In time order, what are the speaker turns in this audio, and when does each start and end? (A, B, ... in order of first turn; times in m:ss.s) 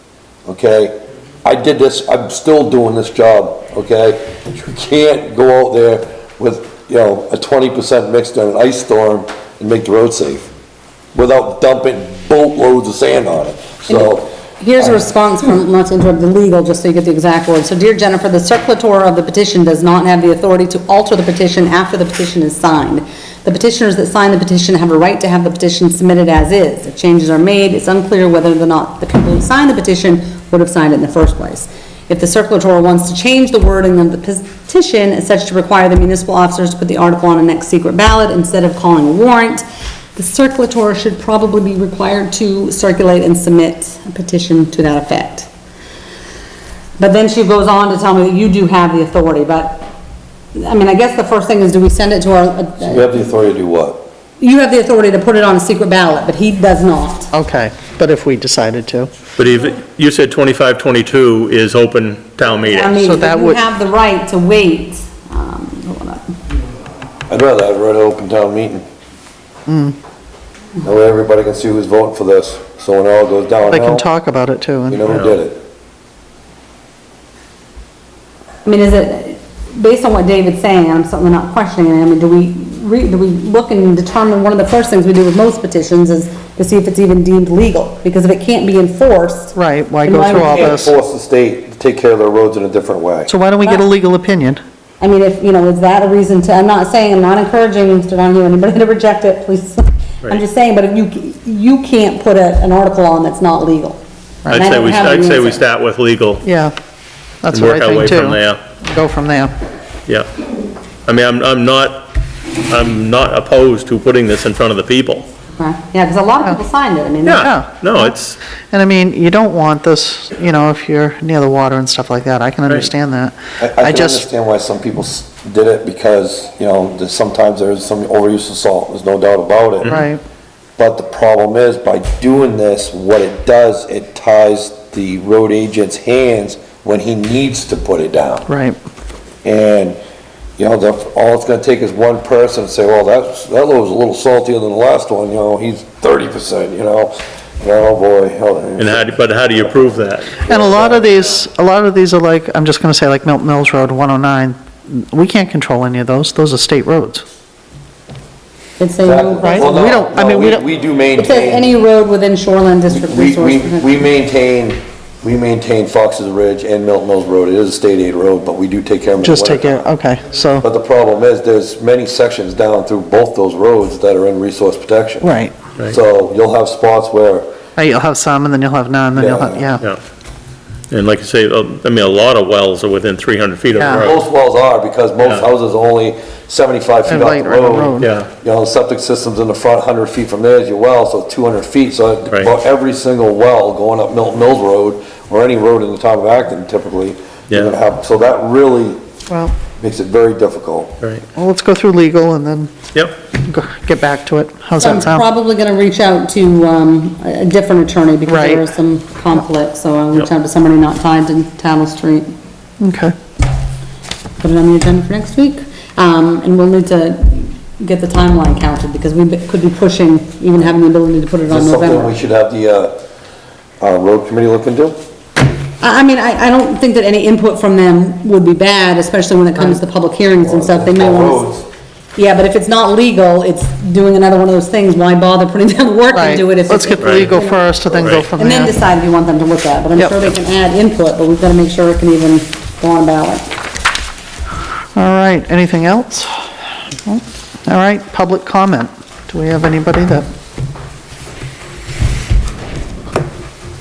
0:00.4-0:10.5 A
0:11.1-0:15.0 A
0:13.9-0:39.6 B
0:40.2-0:45.5 B
0:47.0-0:49.9 B
0:50.5-0:53.1 B
0:52.8-0:54.1 A
0:54.4-0:57.3 B
0:57.3-0:59.1 C
0:59.4-1:03.0 D
1:02.4-1:06.3 B
1:03.0-1:03.6 C
1:07.3-1:08.8 A
1:09.7-1:09.9 C
1:10.8-1:14.0 A
1:13.7-1:15.0 C
1:14.9-1:15.6 A
1:15.1-1:15.4 D
1:18.6-1:30.8 B
1:29.5-1:30.9 C
1:30.3-1:33.3 A
1:33.2-1:34.6 C
1:33.6-1:33.9 B
1:35.0-1:45.6 B
1:44.5-1:46.4 D
1:46.4-1:46.7 C
1:47.4-1:49.5 C
1:47.5-1:48.6 D
1:51.0-1:52.1 D
1:52.7-1:55.2 D
1:55.6-1:57.5 B
1:57.2-1:58.4 D
1:57.4-1:58.1 C
1:58.7-2:04.2 C
2:03.6-2:09.9 A
2:09.9-2:10.2 C
2:10.8-2:18.5 A
2:18.5-2:18.8 C
2:19.4-2:20.0 A
2:20.6-2:29.7 A
2:28.8-2:30.4 D
2:30.4-2:31.1 A
2:30.5-2:37.2 C
2:38.8-2:40.0 B
2:39.0-2:41.8 A
2:39.4-2:40.6 C
2:41.1-2:44.0 B
2:42.9-2:49.8 A
2:49.2-2:50.7 C
2:50.6-2:55.3 A
2:55.2-2:55.5 C
2:55.8-2:57.5 A
2:57.8-2:59.8 C
2:59.1-2:59.7 A
3:00.9-3:04.2 D
3:03.8-3:04.1 C
3:03.9-3:19.0 A
3:07.0-3:08.1 C
3:08.0-3:08.3 D
3:19.3-3:19.5 C
3:19.8-3:20.9 A
3:21.3-3:22.7 C
3:23.3-3:25.2 C
3:24.8-3:32.3 B
3:28.3-3:28.7 C
3:32.8-3:33.1 C
3:34.4-3:42.1 B
3:41.5-3:43.0 A
3:43.8-3:45.0 A
3:45.8-3:51.4 B
3:50.4-3:51.7 A
3:52.2-3:57.8 B
3:56.1-3:58.8 C
3:57.0-3:57.3 D
3:57.9-3:58.3 D
3:58.3-4:03.5 B
4:05.0-4:06.3 C
4:07.0-4:10.3 C